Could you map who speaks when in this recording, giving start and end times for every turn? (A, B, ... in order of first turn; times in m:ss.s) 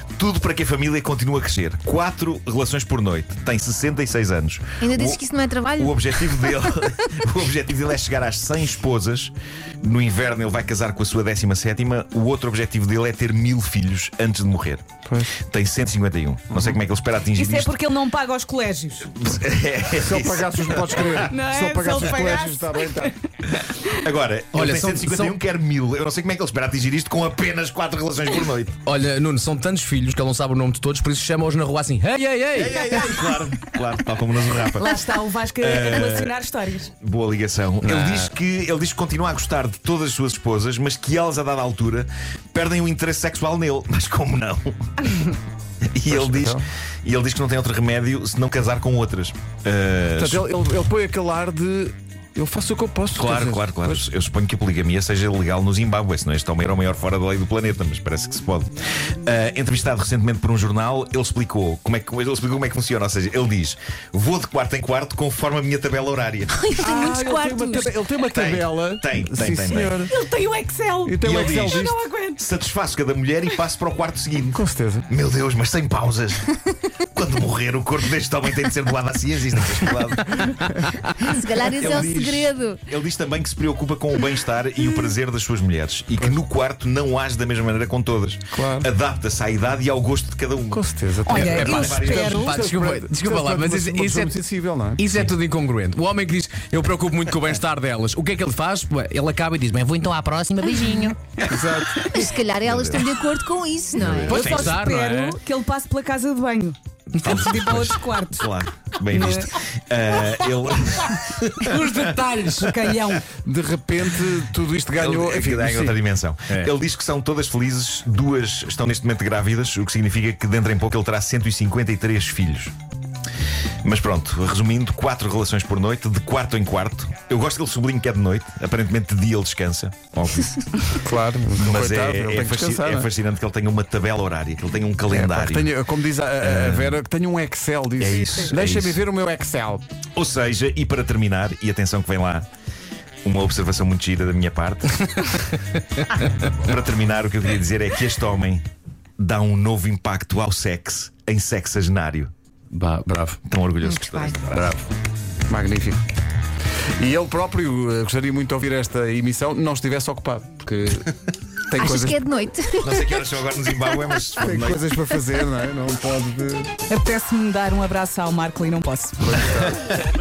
0:00.2-0:14.8 A
0:04.8-0:06.1 B
0:15.1-0:15.4 C
0:15.4-0:17.8 A
0:17.4-0:19.1 D
0:19.1-0:21.3 A
0:20.0-0:23.1 C
0:21.2-0:23.1 D
0:24.0-0:28.8 A
0:24.5-0:25.4 E
0:28.8-0:32.8 E
0:32.6-0:36.4 A
0:32.8-0:33.4 D
0:34.7-0:36.9 D
0:37.0-0:45.4 A
0:46.0-0:50.5 A
0:46.1-0:46.6 C
0:50.2-0:54.0 C
0:53.2-1:06.7 A
1:06.8-1:07.9 D
1:06.8-1:10.1 C
1:08.3-1:10.0 A
1:10.1-1:12.4 D
1:11.0-1:12.0 C
1:11.2-1:20.6 A
1:14.5-1:15.1 C
1:21.2-1:22.8 B
1:21.7-1:32.4 A
1:28.5-1:28.9 C
1:30.7-1:35.0 C
1:31.3-1:32.6 D
1:31.4-1:34.4 E
1:35.0-1:41.2 E
1:40.6-1:41.2 B
1:41.4-1:42.1 C
1:42.1-1:44.4 B
1:42.6-1:43.1 A
1:44.0-1:44.8 A
1:44.3-1:48.5 D
1:44.3-1:45.4 E
1:47.1-1:53.1 A
1:49.1-1:49.5 D
1:51.6-1:52.7 E
1:52.5-1:53.2 D
1:53.4-1:56.0 C
1:55.0-2:02.7 A
2:03.8-2:10.9 A
2:11.0-2:13.1 C
2:11.6-2:15.8 A
2:15.1-2:19.8 C
2:16.4-2:17.0 A
2:18.0-2:19.0 A
2:20.2-2:22.5 A
2:23.2-2:25.4 A
2:26.5-2:28.6 A
2:29.2-2:32.3 A
2:32.7-2:33.4 E
2:33.5-2:34.8 A
2:33.8-2:34.4 B
2:34.5-2:34.8 E
2:35.5-2:36.0 C
2:37.0-2:41.1 C
2:41.7-2:42.2 C
2:41.8-2:43.1 B
2:42.8-2:44.9 A
2:44.4-2:46.7 C
2:46.9-2:49.4 D
2:49.2-2:49.9 C